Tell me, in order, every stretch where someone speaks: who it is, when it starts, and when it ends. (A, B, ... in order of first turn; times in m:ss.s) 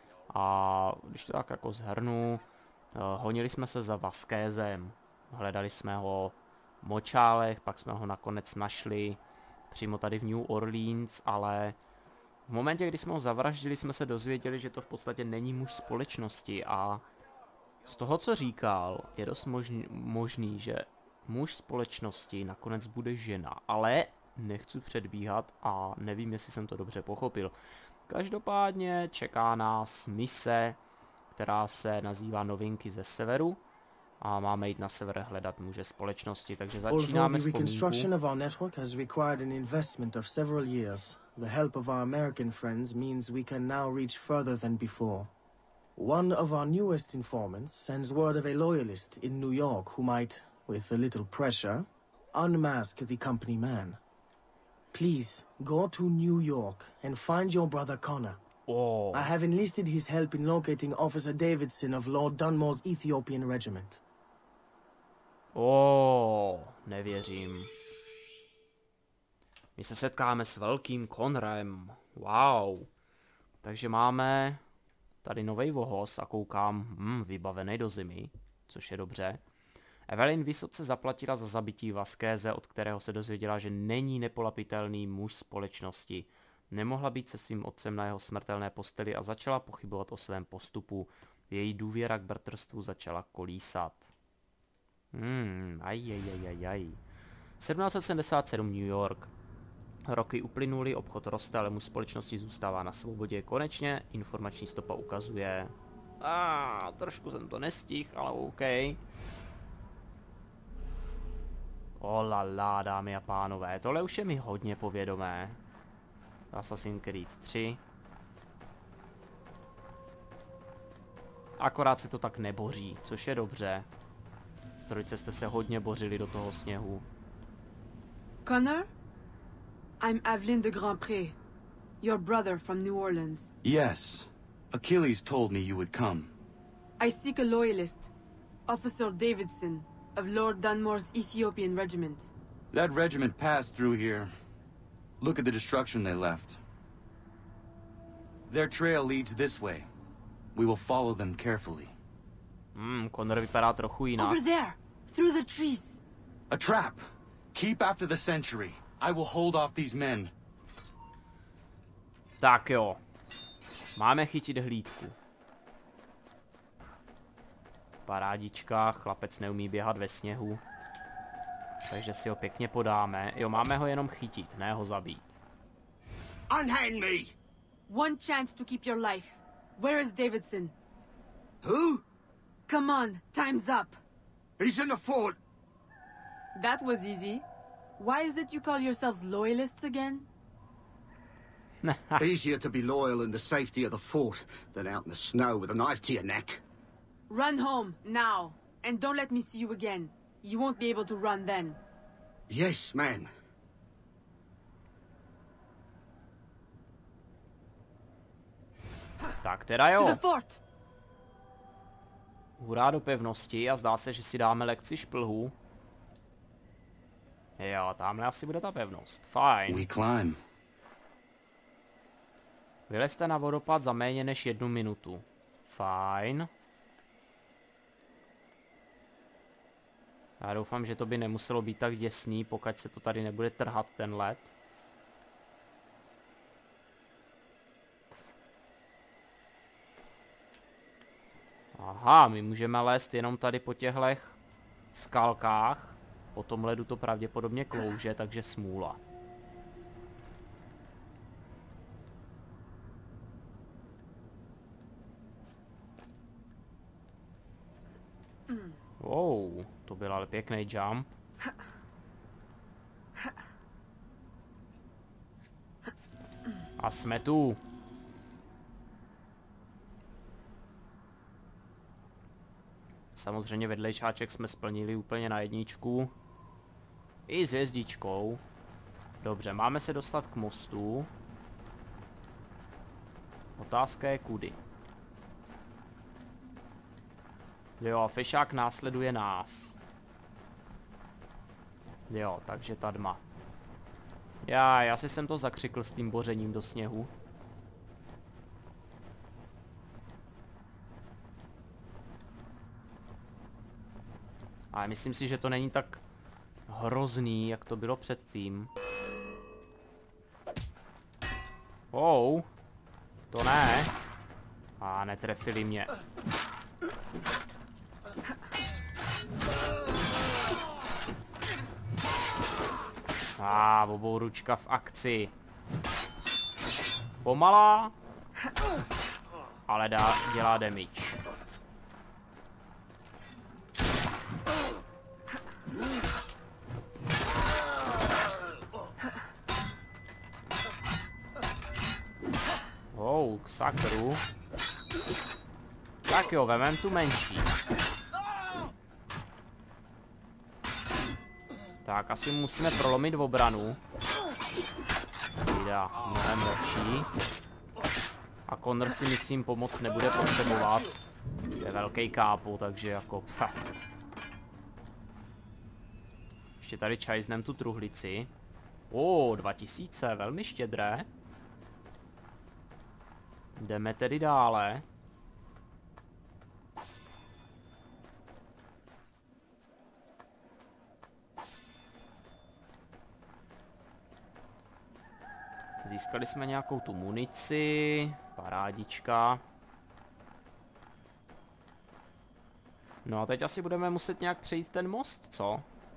0:00.3-0:02.4 A
0:03.0-0:11.8 A
0:12.5-0:17.0 A
0:17.9-0:27.5 A
0:28.1-0:30.8 A
0:31.3-0:33.6 A
0:34.2-0:38.1 A
0:36.9-0:45.3 B
0:46.0-0:54.0 B
0:54.9-0:58.4 B
0:58.7-0:59.3 A
0:59.1-1:04.0 B
1:05.6-1:07.7 A
1:09.8-1:12.9 A
1:13.6-1:14.6 A
1:15.2-1:19.4 A
1:20.1-1:34.1 A
1:35.1-1:37.0 A
1:37.6-1:39.3 A
1:40.1-1:49.0 A
1:52.0-1:55.6 A
1:56.5-1:57.8 A
2:01.6-2:03.9 A
2:04.8-2:07.0 A
2:08.4-2:08.9 C
2:10.0-2:11.4 C
2:12.0-2:13.5 C
2:13.6-2:16.3 D
2:17.0-2:18.1 C
2:18.7-2:22.3 C
2:22.7-2:24.3 D
2:25.2-2:26.6 D
2:28.5-2:29.9 D
2:30.5-2:31.9 D
2:32.8-2:34.4 A
2:34.2-2:36.0 C
2:36.5-2:37.0 D
2:37.5-2:40.3 D
2:42.4-2:43.0 A
2:44.0-2:45.2 A
2:48.1-2:50.6 A
2:51.9-2:55.4 A
2:56.5-2:57.3 E
2:57.9-3:00.7 C
3:01.6-3:02.0 E
3:02.7-3:04.0 C
3:04.6-3:05.4 E
3:06.5-3:07.4 C
3:08.0-3:10.3 C
3:11.8-3:12.3 A
3:12.2-3:16.6 E
3:17.3-3:21.8 C
3:22.5-3:23.3 E
3:29.4-3:30.2 A
3:29.9-3:30.6 C
3:32.6-3:35.5 A
3:37.6-3:39.9 A
3:39.7-3:40.4 D
3:42.9-3:46.5 A
3:50.4-3:54.5 A
4:01.7-4:04.4 A
4:04.9-4:09.0 A
4:19.0-4:21.2 A
4:26.8-4:27.6 A
4:33.2-4:36.1 A
4:37.3-4:38.4 A
4:39.2-4:41.1 A
4:43.6-4:44.6 A
4:47.8-4:49.8 A
4:52.1-4:53.2 A
4:54.4-4:57.1 A
5:04.7-5:06.0 A
5:06.7-5:08.7 A
5:11.9-5:12.5 A
5:13.3-5:13.9 A
5:14.8-5:15.9 A
5:23.4-5:25.3 A
5:27.2-5:27.9 A
5:29.7-5:31.2 A
5:42.9-5:44.2 A
5:46.1-5:47.5 A
5:51.8-5:53.8 A
5:55.4-5:57.1 A
5:58.5-6:01.0 A
6:01.6-6:03.7 A
6:06.6-6:08.3 A
6:08.9-6:11.1 A
6:13.6-6:14.8 A
6:25.8-6:29.4 A
6:33.0-6:35.7 A